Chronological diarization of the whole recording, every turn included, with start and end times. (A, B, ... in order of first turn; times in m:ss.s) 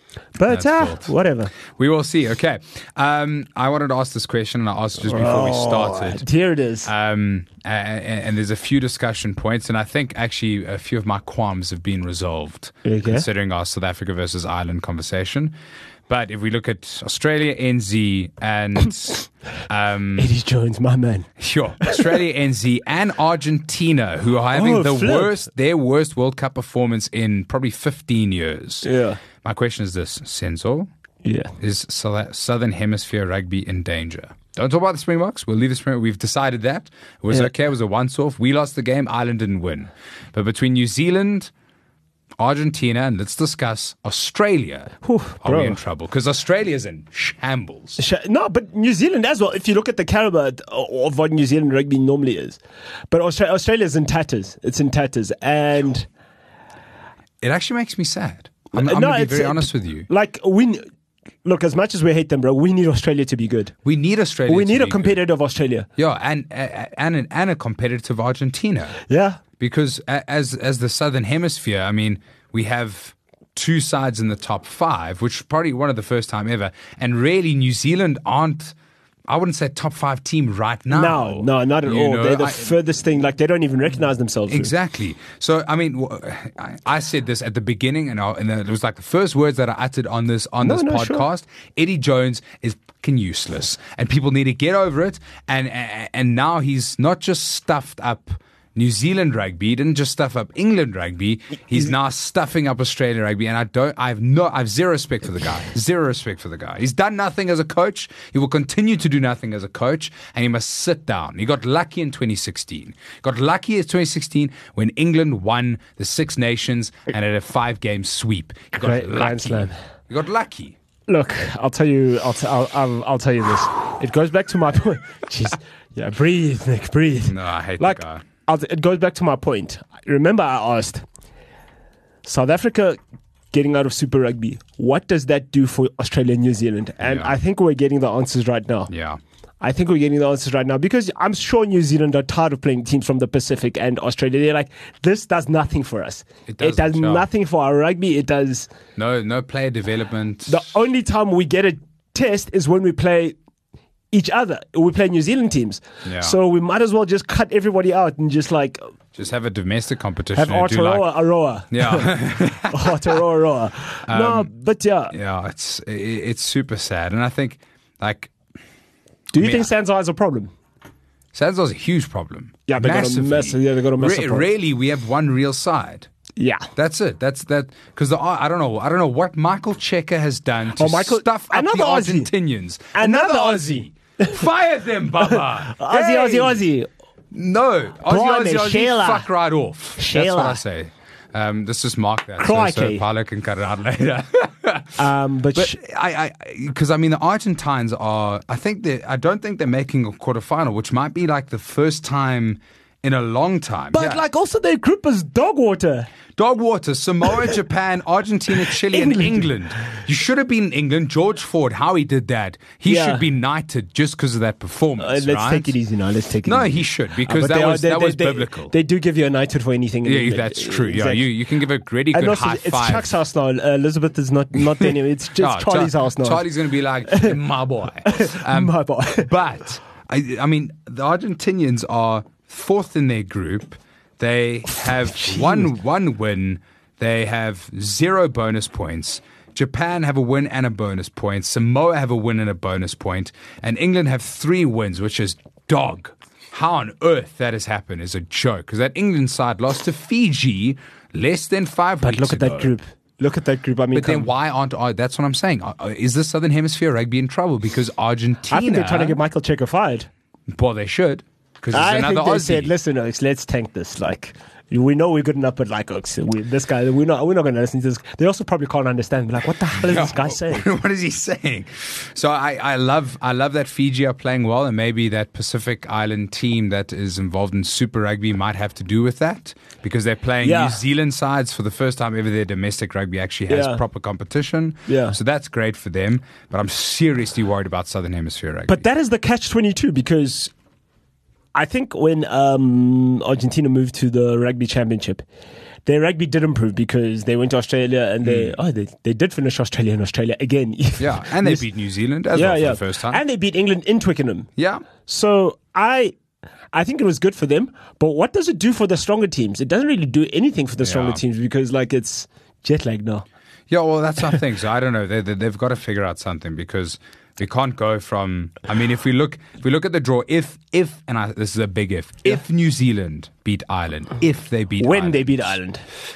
0:00.4-0:01.5 A
0:00.4-0:06.2 B
0:05.0-0:06.9 A
0:06.8-0:15.5 B
0:12.8-0:13.2 A
0:16.1-0:20.3 B
0:20.2-0:21.3 A
0:21.4-0:28.9 B
0:21.8-0:22.1 A
0:24.5-0:25.3 A
0:28.8-0:29.2 A
0:29.4-0:30.9 B
0:31.2-0:31.5 A
0:31.6-0:41.5 B
0:42.4-0:48.0 B
0:45.0-0:45.8 A
0:48.0-0:52.6 A
0:53.1-0:56.1 A
0:57.4-1:00.1 B
0:58.7-1:00.8 A
1:01.4-1:03.7 A
1:03.8-1:05.2 B
1:04.5-1:05.9 A
1:06.0-1:09.0 B
1:09.1-1:09.4 A
1:09.6-1:18.7 B
1:19.3-1:22.7 B
1:20.9-1:24.7 A
1:24.5-2:00.8 B
1:30.6-1:31.3 A
1:58.8-1:59.8 A
2:01.1-2:11.0 A
2:07.3-2:08.2 B
2:12.2-2:13.0 A
2:13.5-2:18.9 A
2:17.0-2:17.3 B
2:18.9-2:19.2 B
2:19.6-2:28.7 A
2:26.5-2:27.3 B
2:29.0-2:30.6 B
2:30.5-2:33.4 A
2:34.1-2:38.8 A
2:36.0-2:36.4 B
2:39.1-2:41.1 B
2:40.3-2:42.2 A
2:41.7-2:43.2 B
2:42.7-2:45.1 A
2:44.1-2:44.5 B
2:45.1-2:48.3 B
2:49.3-2:50.5 A
2:49.3-2:49.7 B
2:51.3-2:56.1 B
2:52.7-2:54.5 A
2:56.4-2:56.7 A
2:56.8-3:06.6 B
3:00.8-3:02.3 A
3:02.9-3:04.4 A
3:05.3-3:06.9 A
3:07.3-3:15.0 B
3:08.1-3:09.3 A
3:10.0-3:10.6 A
3:12.4-3:13.0 A
3:15.0-3:15.8 A
3:15.5-3:24.2 B
3:23.9-3:26.1 A
3:26.4-3:35.7 B
3:28.6-3:29.6 A
3:32.8-3:33.2 A
3:35.0-3:41.2 A
3:36.4-3:38.7 B
3:40.0-3:43.2 B
3:42.1-3:46.5 A
3:44.8-4:12.7 B
3:47.0-3:47.4 A
3:48.0-3:49.3 A
3:55.1-3:55.7 A
4:12.0-4:14.3 A
4:13.9-4:19.2 B
4:18.5-4:20.1 A
4:20.5-4:22.7 B
4:21.7-4:30.6 A
4:29.7-4:48.8 B
4:40.4-4:40.8 A
4:43.5-4:43.8 A
4:44.9-4:45.2 A
4:48.7-4:50.5 A
4:51.5-4:55.2 A
4:55.8-5:01.6 A
4:58.2-4:58.6 B
5:01.0-5:03.2 B
5:02.3-5:04.5 A
5:04.6-5:04.9 B
5:05.0-5:06.2 A
5:06.7-5:13.2 A
5:10.8-5:11.2 B
5:13.7-5:25.6 B
5:24.8-5:25.8 A